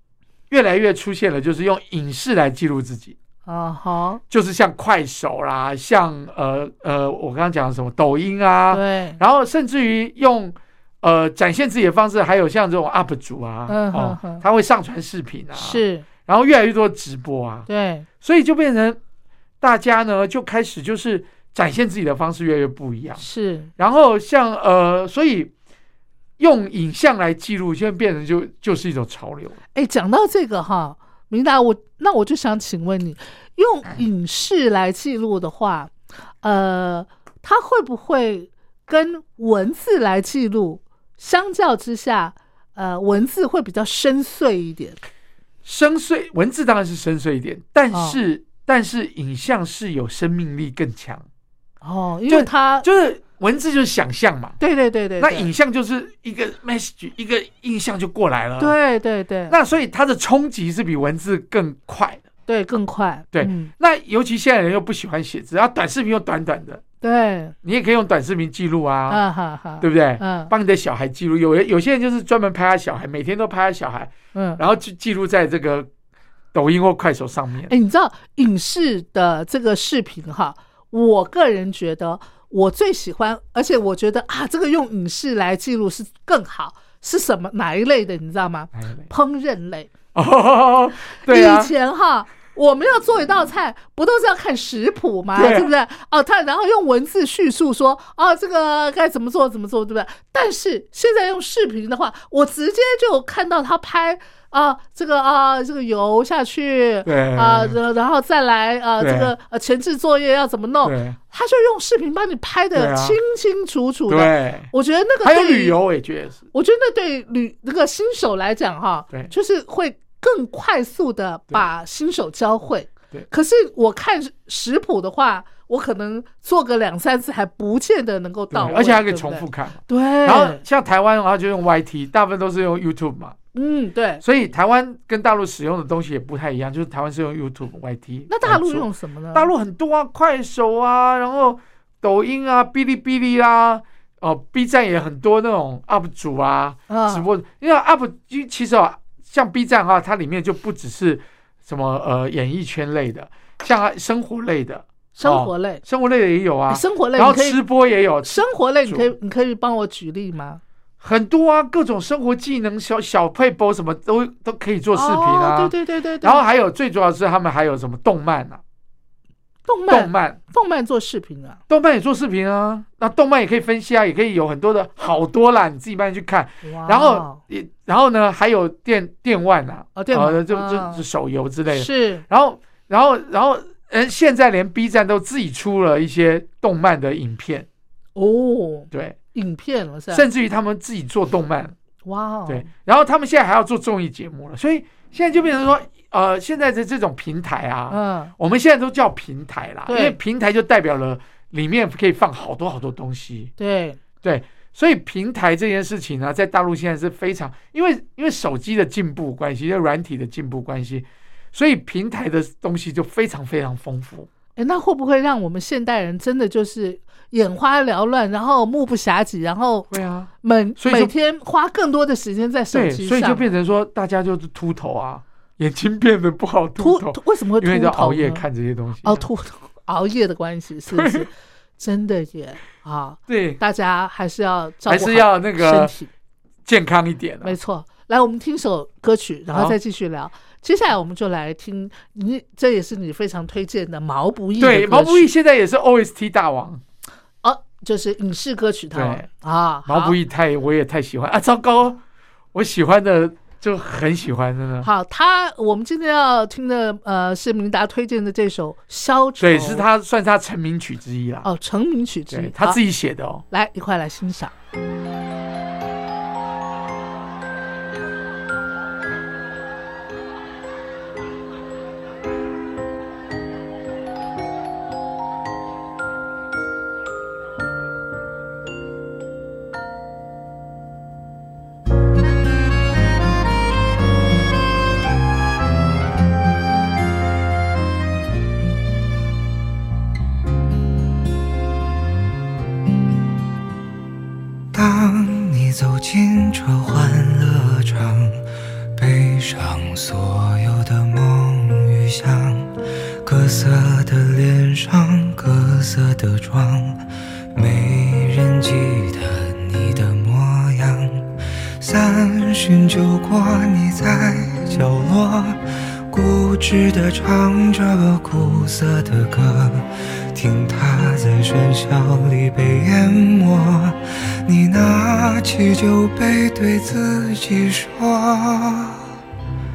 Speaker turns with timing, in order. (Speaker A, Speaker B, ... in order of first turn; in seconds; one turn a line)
Speaker A: 0.5-3.1
Speaker B: 3.5-4.2
Speaker A: 4.3-17.7
Speaker B: 8.7-9.2
Speaker B: 13.7-14.4
Speaker B: 15.6-16.1
Speaker B: 17.7-18.1
Speaker A: 18.2-19.0
Speaker A: 19.6-23.2
Speaker B: 23.2-23.7
Speaker A: 23.8-25.5
Speaker A: 26.4-29.6
Speaker B: 29.7-35.9
Speaker B: 36.4-45.0
Speaker A: 45.6-51.2
Speaker B: 47.9-48.2
Speaker B: 51.8-52.9
Speaker A: 52.3-54.6
Speaker B: 54.6-55.5
Speaker A: 55.2-58.7
Speaker B: 58.6-59.5
Speaker A: 59.5-62.2
Speaker B: 62.5-63.7
Speaker A: 63.3-66.8
Speaker B: 67.0-67.5
Speaker A: 67.6-69.2
Speaker B: 69.1-70.5
Speaker A: 69.8-75.9
Speaker B: 74.3-74.6
Speaker A: 76.5-77.7
Speaker B: 77.7-89.9
Speaker A: 88.7-89.1
Speaker A: 90.1-91.7
Speaker B: 91.2-115.8
Speaker A: 95.3-95.7
Speaker A: 107.0-107.8
Speaker A: 109.0-109.3
Speaker A: 110.8-111.2
Speaker A: 112.7-113.2
Speaker A: 114.1-114.7
Speaker A: 115.2-116.4
Speaker B: 116.5-130.6
Speaker A: 128.5-133.3
Speaker B: 133.5-134.2
Speaker A: 134.2-159.1
Speaker B: 138.3-139.5
Speaker B: 146.9-147.2
Speaker B: 155.2-155.8
Speaker B: 156.7-157.6
Speaker B: 158.2-160.6
Speaker A: 161.0-168.6
Speaker B: 164.9-166.4
Speaker B: 169.7-171.6
Speaker A: 169.9-170.4
Speaker A: 171.7-187.7
Speaker B: 176.6-177.4
Speaker B: 179.9-181.0
Speaker B: 181.7-182.2
Speaker B: 188.2-190.2
Speaker A: 188.9-189.2
Speaker A: 190.1-191.7
Speaker B: 192.1-192.6
Speaker A: 192.5-203.5
Speaker B: 197.9-198.3
Speaker B: 199.9-200.2
Speaker B: 203.6-204.0
Speaker A: 204.2-214.3
Speaker B: 214.6-219.9
Speaker A: 219.9-221.1
Speaker B: 220.4-223.5
Speaker A: 222.7-229.2
Speaker B: 226.8-228.4
Speaker B: 229.0-236.1
Speaker A: 230.9-231.3
Speaker A: 233.3-233.6
Speaker A: 234.9-235.9
Speaker A: 236.7-237.6
Speaker B: 237.4-245.3
Speaker A: 244.6-246.8
Speaker B: 247.4-250.2
Speaker A: 248.9-249.3
Speaker A: 249.8-252.0
Speaker A: 252.5-254.9
Speaker B: 254.8-259.8
Speaker A: 259.4-261.5
Speaker B: 261.4-262.8
Speaker A: 262.3-263.4
Speaker B: 263.5-264.5
Speaker C: 294.7-298.4
Speaker C: 298.9-329.0